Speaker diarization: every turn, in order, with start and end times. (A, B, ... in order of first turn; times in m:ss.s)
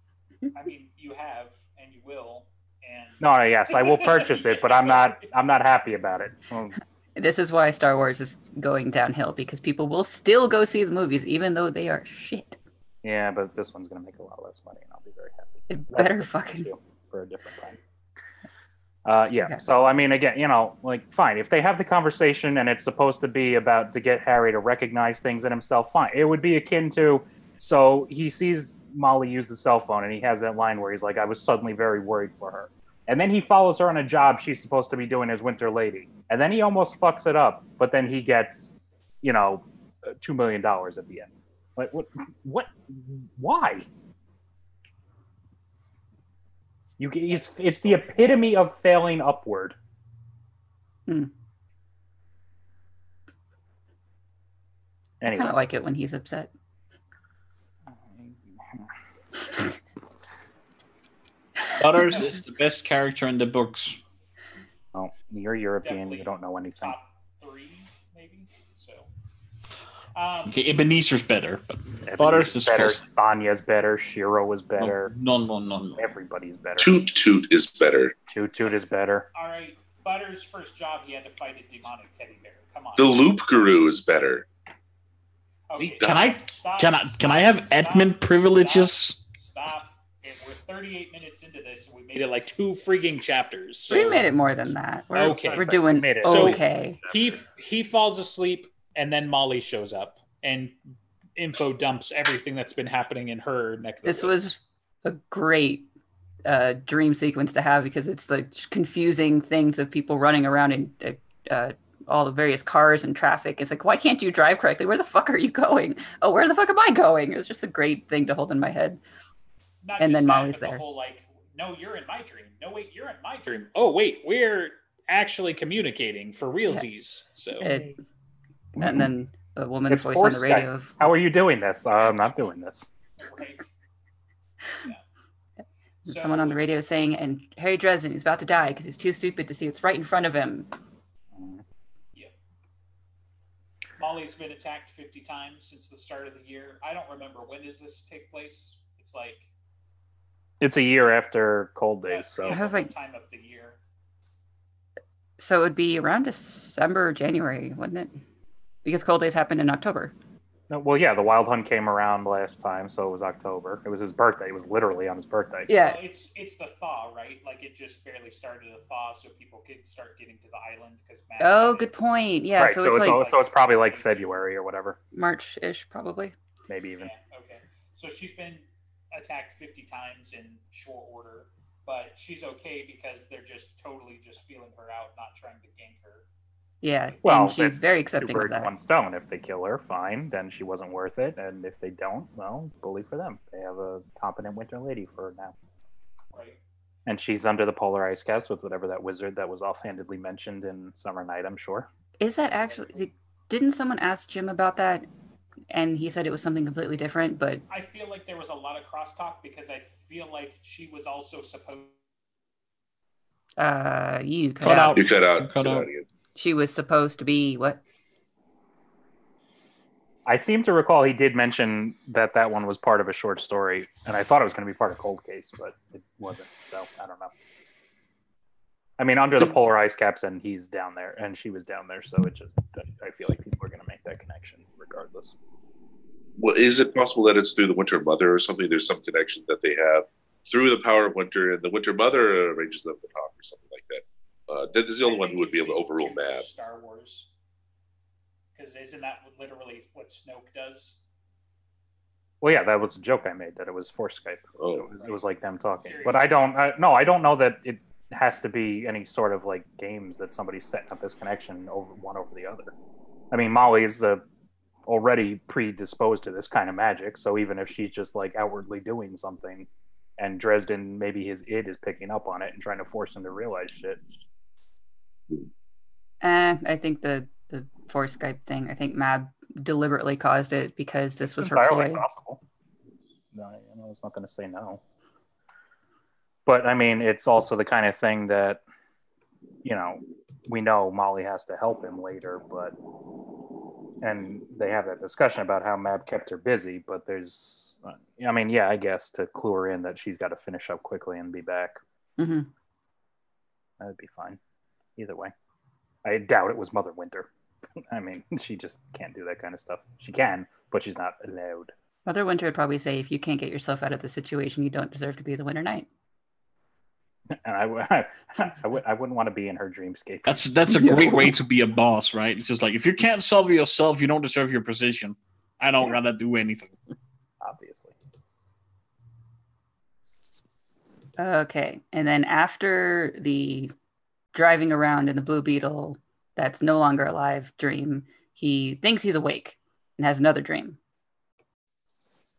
0:00.5-0:05.2 A
0:03.2-0:06.8 B
0:07.2-0:12.6 C
0:13.0-0:17.8 B
0:15.7-0:16.7 C
0:19.0-0:43.9 B
0:47.0-0:49.8 B
0:47.2-0:48.6 A
0:55.2-0:55.7 B
0:55.3-0:56.5 C
0:58.0-0:58.9 B
1:01.8-1:04.0 D
1:04.9-1:07.0 B
1:05.8-1:09.1 A
1:10.2-1:10.6 A
1:10.5-1:13.1 D
1:12.1-1:15.1 B
1:14.8-1:16.1 D
1:16.0-1:17.0 B
1:16.8-1:18.2 E
1:18.3-1:19.3 B
1:19.3-1:23.2 A
1:23.0-1:24.5 E
1:25.7-1:34.3 A
1:25.8-1:26.4 E
1:26.0-1:29.2 D
1:33.9-1:37.0 C
1:35.1-1:40.8 A
1:35.4-1:37.2 B
1:41.4-1:44.6 A
1:44.0-1:45.9 C
1:46.4-1:59.0 C
1:59.8-2:07.8 A
2:00.0-2:00.8 C
2:07.6-2:08.0 C
2:08.8-2:09.1 B
2:08.8-2:11.0 C
2:09.9-2:12.9 B
2:13.2-2:13.7 A
2:16.0-2:16.6 A
2:16.0-2:20.7 C
2:21.4-2:21.6 B
2:24.0-2:29.5 A
2:30.6-2:32.6 B
2:32.1-2:33.8 A
2:32.5-2:32.9 C
2:35.4-2:38.1 C
2:38.8-2:40.1 C
2:40.7-2:45.7 B
2:45.7-2:46.0 C
2:45.7-2:51.9 A
2:51.4-2:53.2 C
2:52.6-2:55.0 B
2:52.9-2:54.4 A
2:55.1-2:56.3 C
2:56.7-2:57.1 B
2:57.0-3:06.2 A
3:06.8-3:08.7 C
3:07.2-3:15.5 B
3:16.3-3:16.6 A
3:17.1-3:21.9 B
3:22.2-3:25.1 C
3:25.7-3:27.6 C
3:27.7-3:32.0 A
3:33.6-3:35.0 C
3:34.6-3:35.9 D
3:35.0-3:36.1 E
3:36.4-3:37.8 C
3:40.3-3:47.3 B
3:49.0-3:55.4 B
3:56.4-4:06.4 E
4:05.0-4:07.3 A
4:08.6-4:11.0 A
4:12.4-4:22.7 B
4:14.6-4:14.9 E
4:15.8-4:16.3 A
4:23.3-4:24.2 B
4:24.9-4:34.0 B
4:36.2-4:42.0 C
4:41.2-4:42.4 B
4:43.3-4:44.8 B
4:46.5-4:48.6 B
4:49.6-4:52.7 B
4:54.0-5:01.8 B
5:02.2-5:02.5 C
5:03.8-5:04.4 B
5:05.0-5:05.3 B
5:06.0-5:07.3 B
5:07.9-5:11.7 B
5:12.0-5:15.9 C
5:17.3-5:20.4 B
5:20.3-5:26.8 D
5:27.4-5:27.9 B
5:31.2-5:33.7 C
5:34.3-5:40.8 C